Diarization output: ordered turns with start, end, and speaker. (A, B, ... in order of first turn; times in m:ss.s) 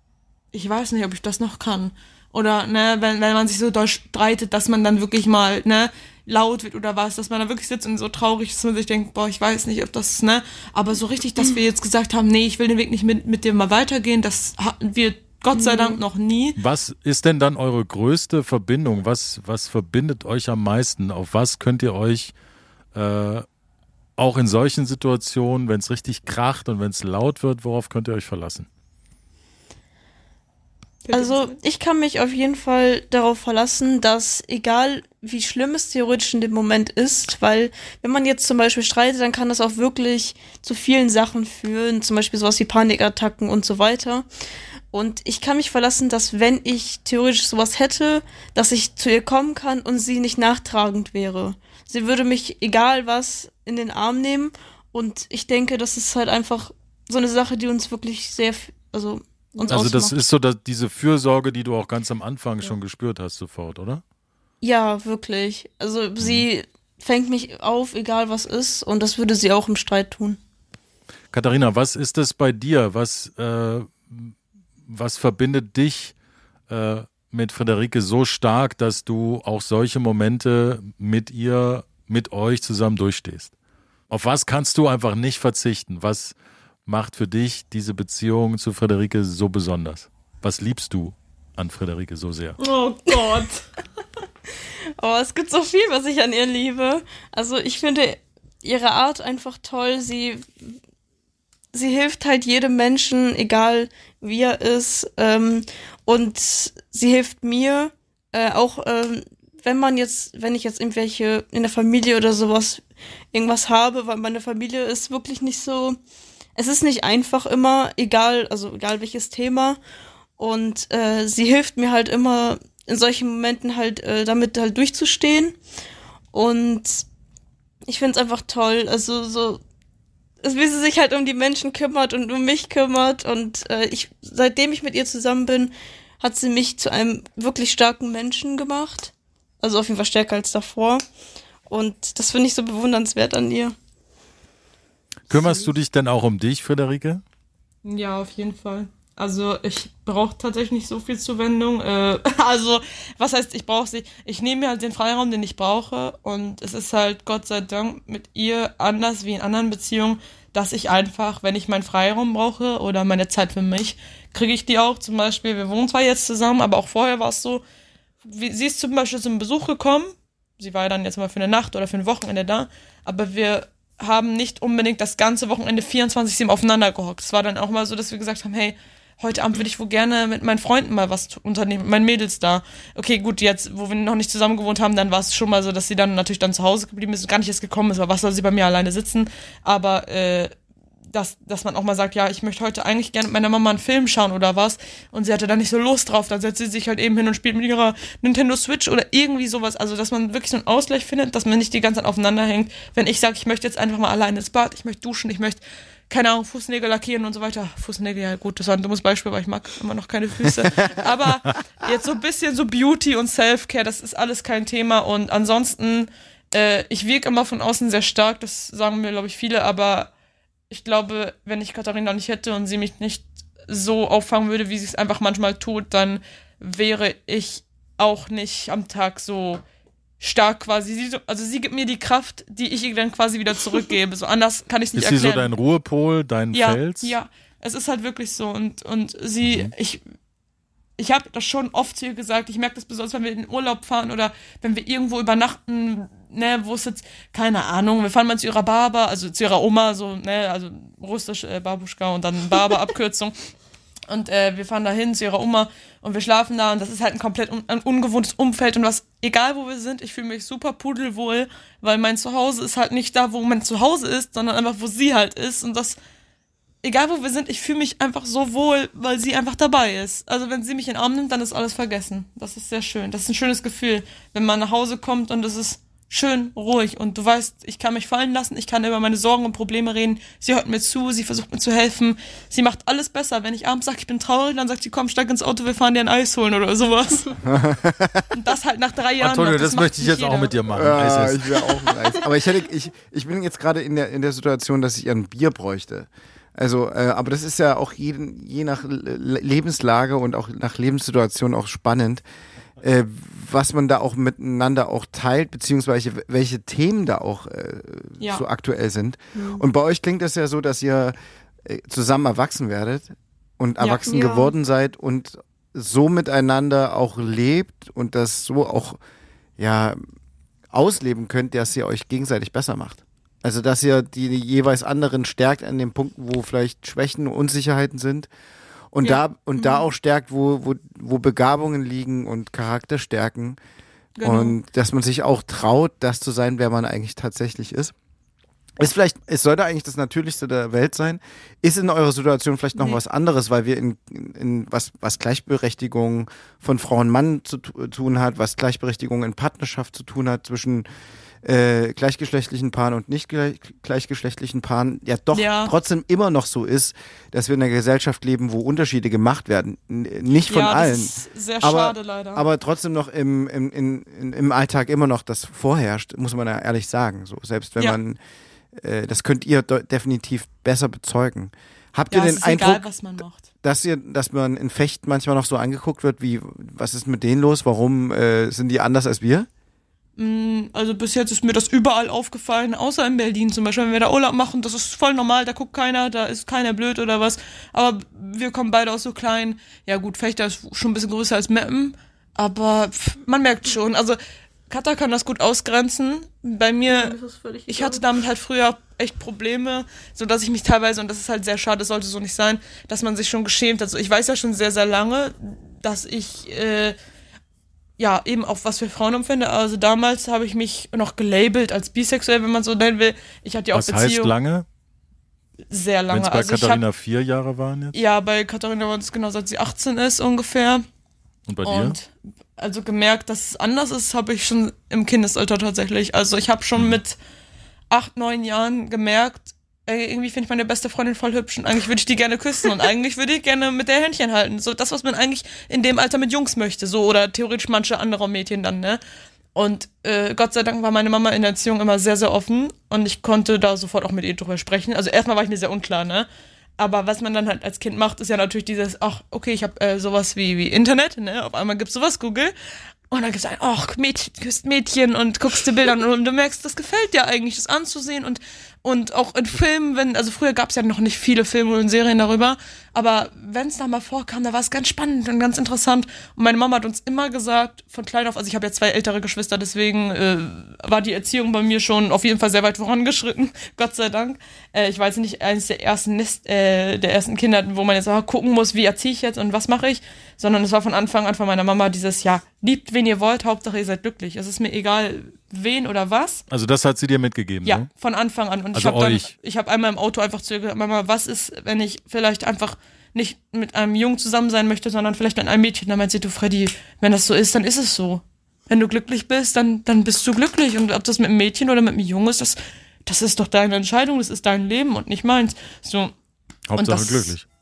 0:00.5-0:16.6 A
0:15.5-0:16.0 B
0:16.6-0:22.3 C
0:22.9-0:23.4 C
0:24.2-0:28.7 C
0:31.0-0:31.6 A
0:31.1-0:44.2 B
0:44.9-1:00.2 B
0:59.7-1:04.0 C
1:04.6-1:10.4 B
1:06.2-1:06.4 C
1:11.3-1:14.3 C
1:14.8-1:16.1 C
1:16.7-1:23.5 C
1:24.1-1:26.3 C
1:26.8-1:32.6 C
1:32.6-1:33.6 A
1:35.0-1:40.7 B
1:41.7-1:56.0 B
1:56.6-1:59.8 B
2:00.4-2:05.6 B
2:06.3-2:07.0 B
2:07.8-2:09.6 B
2:10.4-2:21.0 B
2:21.7-2:23.8 B
2:25.3-2:27.2 C
2:27.8-2:47.6 A
2:48.2-3:10.5 A
3:11.1-3:40.1 A
3:30.6-3:30.9 D
3:40.7-3:49.6 A
3:50.2-3:55.5 A
3:54.9-3:57.1 C
3:56.5-4:00.0 A
3:59.4-3:59.7 C
4:01.0-4:13.3 A
4:14.1-4:26.0 A
4:26.8-4:47.4 A
4:47.4-4:48.3 D
4:48.3-4:50.6 A
4:49.2-4:51.7 C
4:50.7-5:02.2 D
5:02.8-5:19.0 D
5:09.3-5:09.6 B
5:14.0-5:14.5 B
5:19.6-5:20.0 D
5:20.7-5:28.3 D
5:28.9-5:33.6 D
5:34.2-5:34.6 A
5:34.2-5:37.9 D
5:38.8-5:50.8 D
5:51.4-6:08.2 D
5:55.3-5:55.7 A
6:00.5-6:02.4 A
6:08.8-6:12.8 D
6:12.1-6:13.4 A
6:13.6-6:19.5 D
6:20.2-6:34.2 A
6:34.7-6:37.1 A
6:36.9-6:38.0 B
6:37.7-6:47.0 A
6:48.0-6:54.3 A
6:53.7-6:54.6 C
6:55.7-6:56.8 A
6:56.1-6:58.0 C
6:57.9-7:00.8 A
7:01.5-7:02.0 C
7:01.6-7:07.2 A
7:07.9-7:19.0 A
7:19.5-7:26.3 A
7:26.8-7:32.5 A
7:33.1-8:06.4 A
8:06.5-8:07.9 C
8:07.6-8:26.1 A
8:08.7-8:09.3 C
8:26.7-8:27.4 C
8:26.8-8:27.3 A